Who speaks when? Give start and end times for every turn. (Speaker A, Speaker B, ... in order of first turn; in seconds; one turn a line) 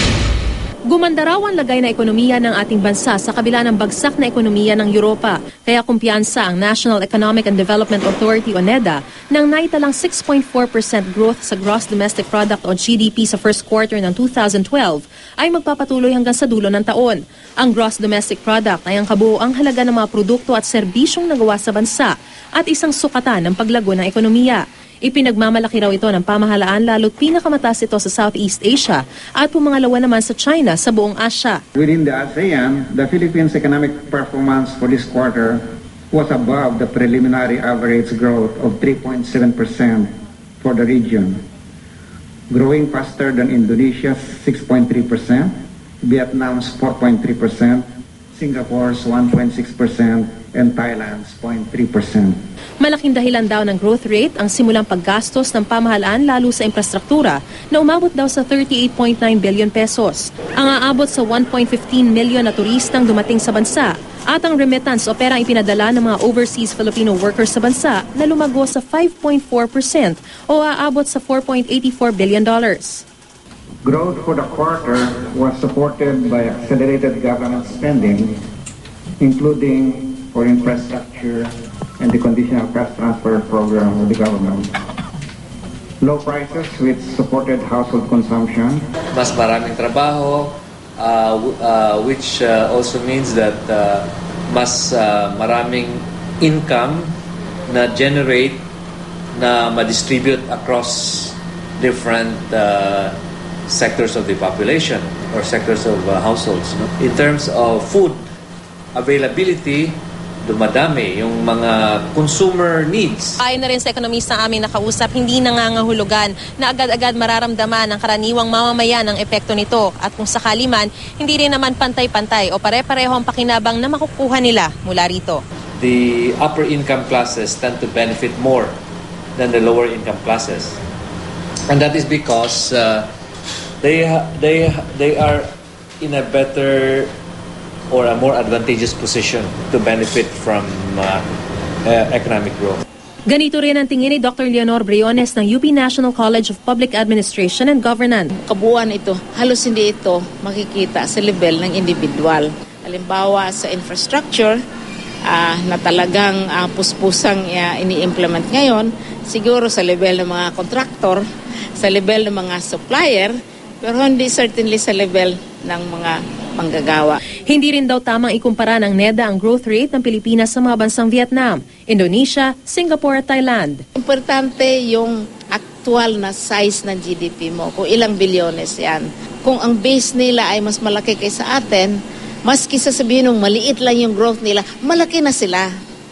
Speaker A: 0.9-31.6
Speaker B: 31.8-41.4
Speaker B: 42.5-52.4
Speaker A: 52.8-73.0
Speaker B: 73.8-78.4
Speaker B: 79.2-84.7
Speaker B: 86.0-88.8
Speaker C: 89.1-97.2
Speaker C: 97.7-98.7
Speaker C: 99.3-103.2
Speaker C: 103.7-108.2
Speaker C: 109.0-113.4
Speaker A: 113.4-125.4
Speaker C: 125.8-128.8
Speaker C: 129.4-130.8
Speaker C: 131.7-133.1
Speaker C: 133.8-135.5
Speaker C: 136.0-137.1
Speaker C: 137.9-141.2
Speaker C: 141.8-142.8
Speaker A: 143.3-148.3
Speaker D: 148.4-154.6
Speaker D: 155.3-161.2
Speaker D: 161.8-167.2
Speaker A: 167.5-173.8
Speaker D: 174.0-185.7